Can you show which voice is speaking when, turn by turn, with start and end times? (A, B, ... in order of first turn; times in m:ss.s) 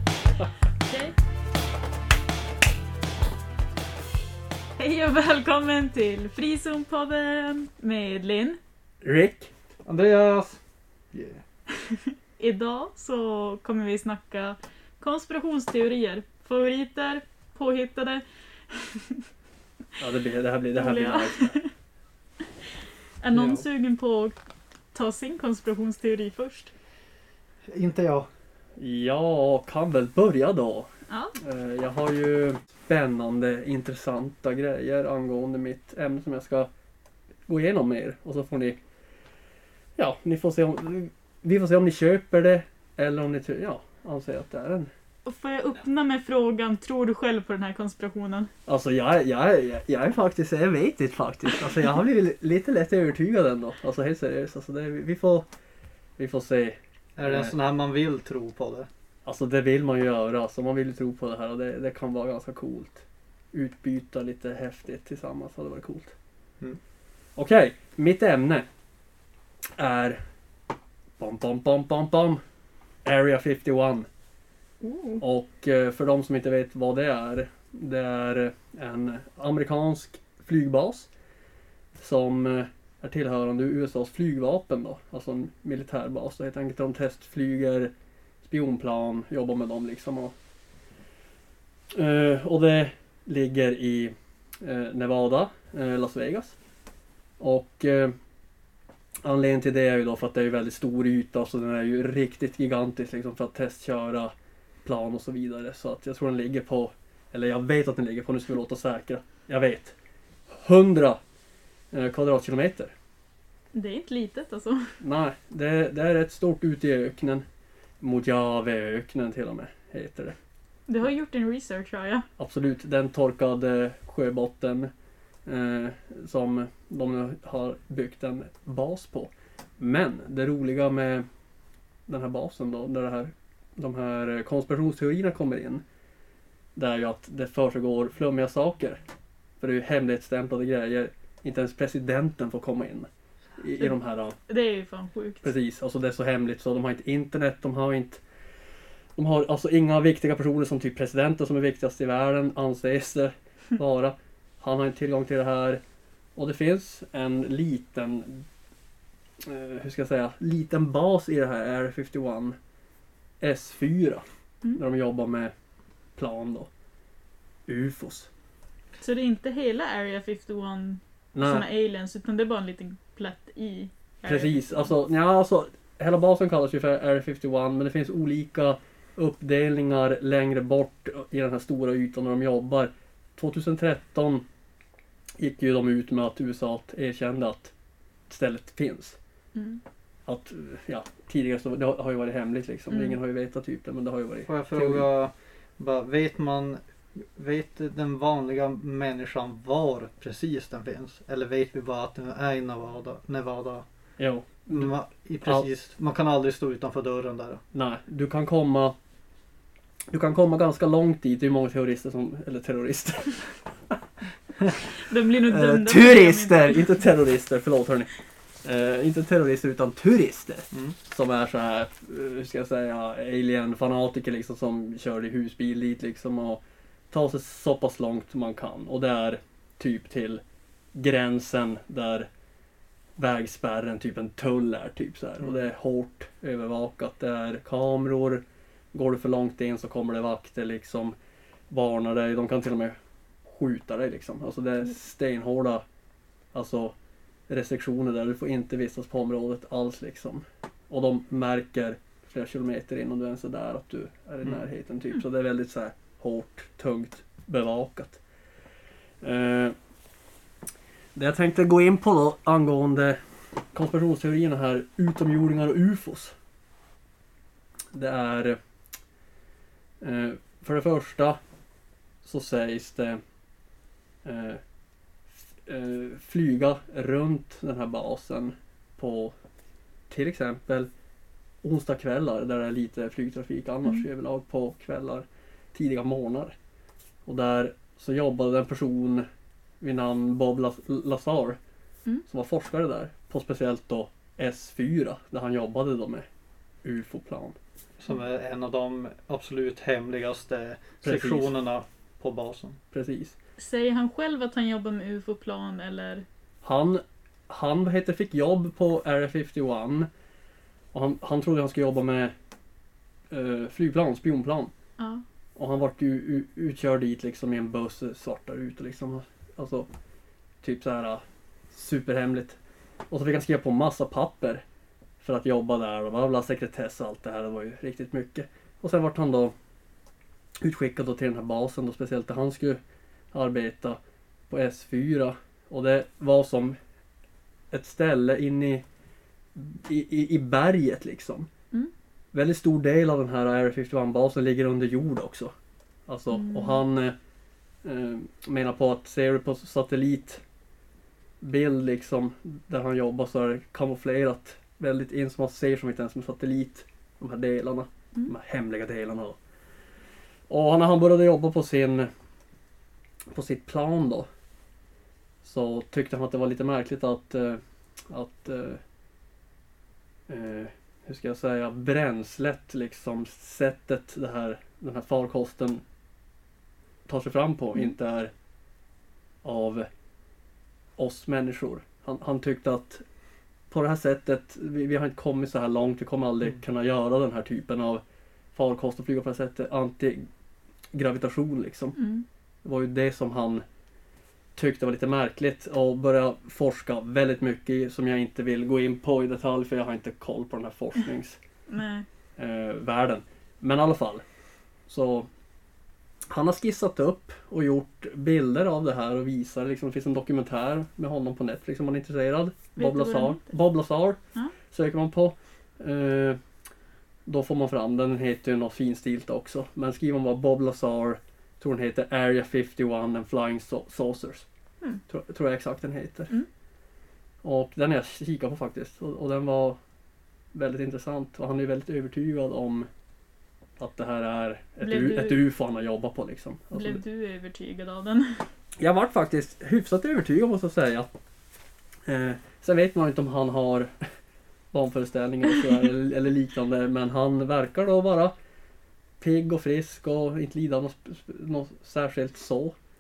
0:00.9-0:01.2 A
0:04.8-0:08.6 A
0:09.0-0:09.5 B
0:09.9-0:10.6 C
0:11.1-0:11.4 C
0:11.7-0:19.2 A
0:20.0-0:21.6 B
0:20.8-0:21.7 A
0:23.2-0:24.4 A
0:23.3-0:23.6 C
0:24.9-0:26.7 A
0:27.7-0:28.3 C
0:28.8-0:36.7 B
0:31.1-0:31.3 A
0:37.5-0:38.8 B
0:40.0-0:44.9 B
0:45.3-0:48.5 A
0:48.7-0:55.5 B
0:56.2-0:57.6 B
0:57.2-0:58.9 C
0:59.2-1:06.1 B
1:07.4-1:08.7 B
1:09.8-1:10.2 B
1:11.2-1:12.4 B
1:13.0-1:14.1 B
1:14.8-1:15.2 A
1:15.2-1:21.1 B
1:22.0-1:27.9 B
1:28.4-1:30.3 B
1:31.9-1:36.6 B
1:37.4-1:38.2 B
1:39.2-1:44.3 B
1:44.8-1:50.0 B
1:50.5-1:51.2 B
1:51.9-1:52.9 B
1:53.7-1:54.9 A
1:55.0-1:57.4 B
1:58.0-2:00.4 B
2:00.9-2:02.3 A
2:02.4-2:04.9 B
2:05.5-2:11.2 B
2:12.1-2:15.8 B
2:16.8-2:19.0 B
2:19.6-2:24.4 B
2:24.5-2:25.6 A
2:25.4-2:28.2 B
2:29.2-2:35.8 B
2:36.4-2:38.5 B
2:39.4-2:42.6 B
2:43.4-2:45.5 B
2:46.2-2:46.7 B
2:47.7-2:48.3 B
2:49.0-2:54.9 A
2:51.3-2:51.7 B
2:54.2-3:04.4 B
3:05.4-3:07.7 B
3:08.3-3:09.2 B
3:09.6-3:09.8 A
3:10.3-3:15.1 B
3:12.9-3:13.2 A
3:14.5-3:16.8 C
3:17.4-3:23.8 C
3:24.2-3:24.9 B
3:24.7-3:27.6 C
3:27.7-3:29.0 B
3:30.1-3:34.0 B
3:35.0-3:36.9 A
3:35.5-3:38.1 B
3:38.6-3:50.4 B
3:50.9-3:52.3 B
3:53.2-4:01.2 B
4:01.7-4:03.0 B
4:03.5-4:05.8 B
4:06.5-4:07.0 B
4:07.5-4:18.2 B
4:19.2-4:19.8 B
4:21.2-4:23.2 B
4:23.7-4:26.4 B
4:27.9-4:28.6 B
4:30.0-4:31.4 B
4:32.2-4:33.2 B
4:34.2-4:34.6 B
4:35.6-4:39.3 B
4:40.1-4:40.9 B
4:41.6-4:46.6 B
4:47.3-4:49.2 B
4:49.8-4:51.6 B
4:52.3-4:56.3 B
4:56.8-4:57.6 B
4:58.0-5:02.8 C
5:01.0-5:01.5 B
5:02.9-5:03.4 B
5:03.6-5:06.2 A
5:06.6-5:10.1 B
5:10.9-5:12.3 B
5:13.3-5:14.7 B
5:15.6-5:19.9 B
5:20.6-5:22.6 B
5:23.1-5:24.6 B
5:25.2-5:29.5 B
5:30.6-5:32.8 B
5:33.3-5:36.8 B
5:37.7-5:38.8 B
5:39.6-5:41.5 B
5:42.3-5:45.5 B
5:46.1-5:47.2 B
5:46.3-5:46.8 A
5:47.8-5:50.4 B
5:51.4-5:59.4 B
6:00.5-6:02.1 B
6:03.3-6:04.3 B
6:05.4-6:08.8 B
6:10.3-6:15.8 B
6:17.1-6:18.3 B
6:19.4-6:19.9 B
6:21.0-6:23.0 B
6:23.7-6:28.0 B
6:28.6-6:30.3 B
6:30.9-6:32.0 B
6:32.0-6:32.2 A
6:32.6-6:33.6 B
6:34.6-6:41.4 B
6:41.7-6:42.0 A
6:42.4-6:44.2 B
6:44.9-6:45.3 B
6:46.3-6:54.2 B
6:52.8-6:53.5 A
6:54.7-6:56.4 B
6:57.3-7:04.5 B
7:05.1-7:06.3 B
7:07.4-7:09.8 B
7:10.5-7:12.9 B
7:13.8-7:17.0 B
7:14.8-7:15.4 A
7:16.7-7:18.5 A
7:18.8-7:21.1 B
7:22.1-7:24.0 B
7:24.7-7:28.3 B
7:29.2-7:32.8 B